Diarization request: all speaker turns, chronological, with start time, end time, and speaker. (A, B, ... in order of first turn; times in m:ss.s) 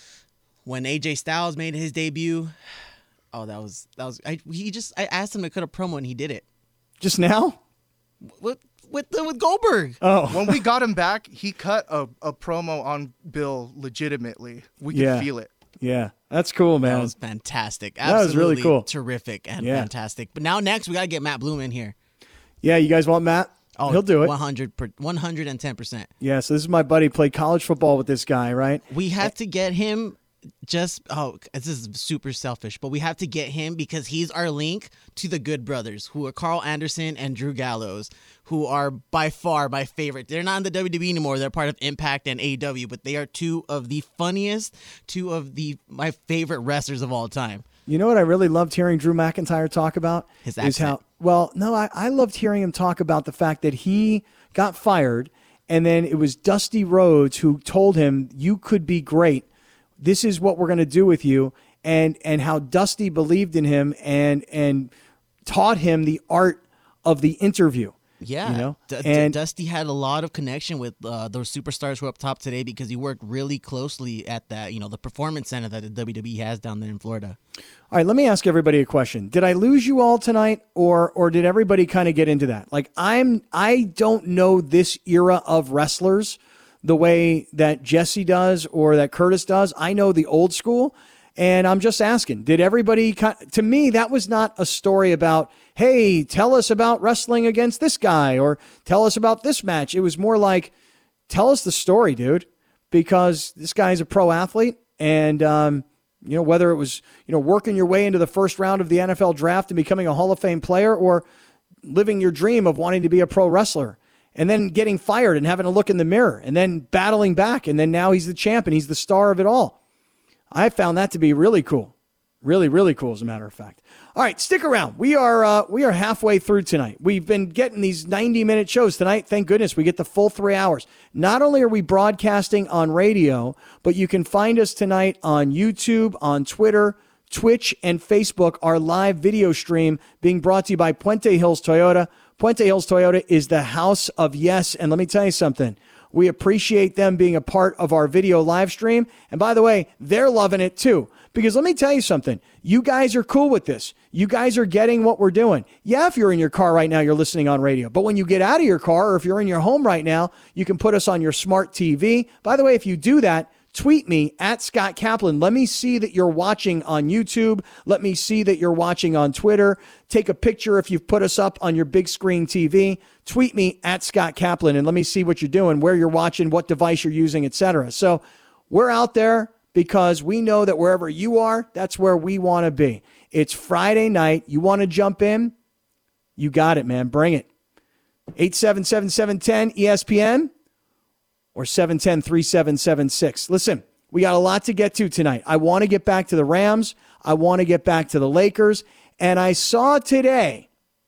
0:00.6-0:02.5 A
0:03.3-0:06.4 A
0:07.0-0:07.6 B
0:08.2-0:10.0 A
0:10.0-0:10.6 B
0:10.3-0:15.5 C
0:14.9-0:15.3 B
0:15.8-0:17.1 B
0:16.8-0:21.9 A
0:18.0-0:18.9 B
0:19.6-0:19.9 B
0:22.6-0:24.3 B
0:23.8-0:26.1 A
0:26.2-0:29.2 B
0:28.9-0:47.6 A
0:47.9-0:59.4 B
0:50.4-0:51.0 A
1:00.0-1:04.9 B
1:05.4-1:09.4 B
1:08.2-1:17.4 A
1:17.9-1:40.7 B
1:41.3-1:51.2 B
1:51.8-1:59.8 B
2:00.5-3:05.5 B
3:06.4-3:07.5 B
3:08.4-3:10.5 B
3:11.5-3:20.7 B